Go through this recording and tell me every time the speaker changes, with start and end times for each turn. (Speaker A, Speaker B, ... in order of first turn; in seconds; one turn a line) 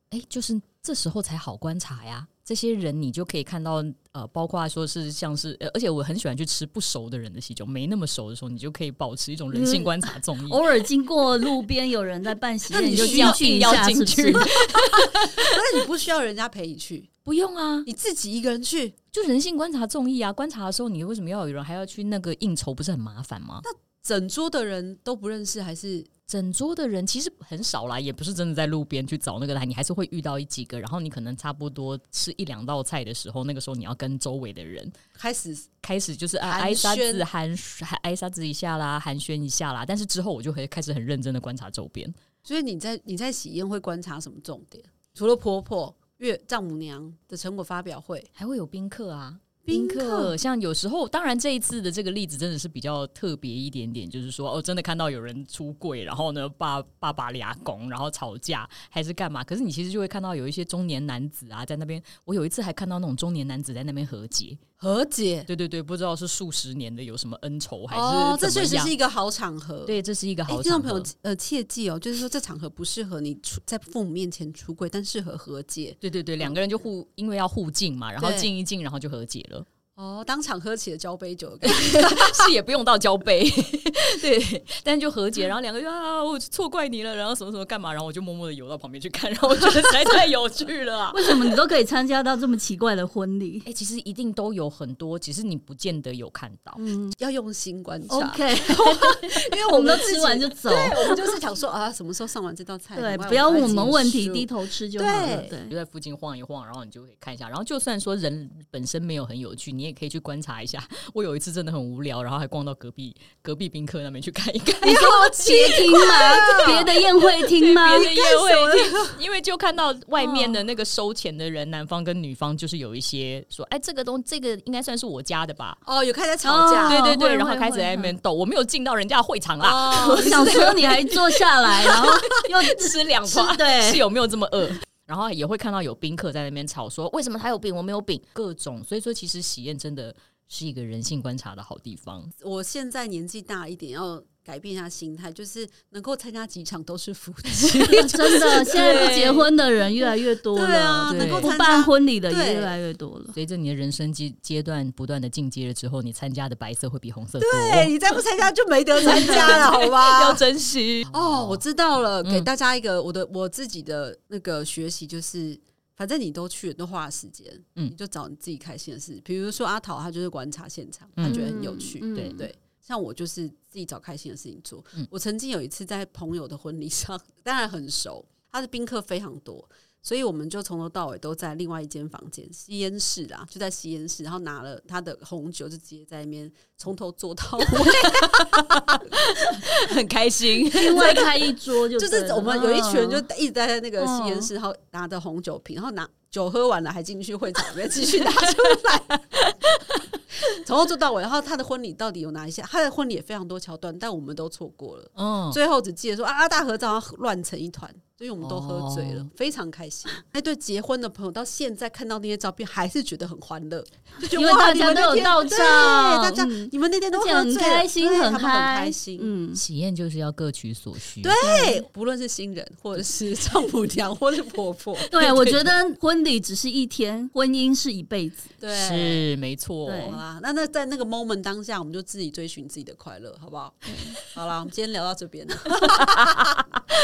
Speaker A: 0.1-10.6
Speaker B: 9.5-14.5
Speaker C: 12.7-13.4
Speaker A: 12.7-15.6
Speaker C: 15.0-17.1
Speaker A: 17.2-17.9
Speaker C: 17.9-19.0
Speaker A: 19.1-23.6
Speaker C: 23.6-26.1
Speaker A: 26.3-35.0
Speaker C: 35.1-35.7
Speaker A: 35.8-42.2
Speaker C: 36.4-37.2
Speaker C: 42.5-48.3
Speaker A: 48.4-64.6
Speaker C: 49.6-50.4
Speaker C: 64.8-65.5
Speaker A: 65.5-69.0
Speaker C: 67.9-70.0
Speaker A: 69.9-71.1
Speaker C: 70.5-76.5
Speaker A: 76.0-79.7
Speaker C: 78.2-78.5
Speaker C: 80.0-82.5
Speaker A: 81.6-91.5
Speaker B: 91.1-93.7
Speaker A: 93.7-96.8
Speaker B: 96.8-97.1
Speaker C: 97.2-105.5
Speaker B: 98.1-101.3
Speaker B: 103.0-105.7
Speaker A: 105.2-115.3
Speaker B: 114.8-118.1
Speaker C: 114.9-117.0
Speaker A: 116.3-116.9
Speaker A: 117.5-125.8
Speaker C: 117.8-119.2
Speaker C: 125.8-127.0
Speaker B: 126.4-128.1
Speaker A: 126.8-131.1
Speaker C: 129.6-131.2
Speaker B: 129.9-134.0
Speaker A: 131.9-142.3
Speaker C: 142.4-149.5
Speaker A: 147.5-149.5
Speaker B: 147.8-153.4
Speaker C: 150.5-152.8
Speaker A: 151.1-151.5
Speaker A: 153.3-158.0
Speaker C: 157.4-160.4
Speaker A: 159.0-161.6
Speaker C: 161.1-189.1
Speaker A: 162.2-162.5
Speaker A: 171.2-171.5
Speaker B: 171.2-172.5
Speaker A: 172.1-172.4
Speaker A: 187.8-191.5
Speaker B: 190.7-193.3
Speaker C: 191.0-191.2
Speaker C: 191.9-199.2
Speaker B: 194.2-194.4
Speaker A: 199.1-200.2
Speaker C: 200.5-219.3
Speaker A: 205.2-205.6
Speaker A: 208.4-209.3
Speaker B: 214.3-219.6
Speaker A: 219.5-221.4
Speaker C: 221.2-225.1
Speaker B: 221.4-221.8
Speaker A: 225.1-225.7
Speaker B: 225.1-228.6
Speaker C: 228.6-229.2
Speaker A: 228.7-230.1
Speaker B: 229.9-230.2
Speaker C: 230.0-236.6
Speaker B: 233.9-234.2
Speaker A: 235.6-236.6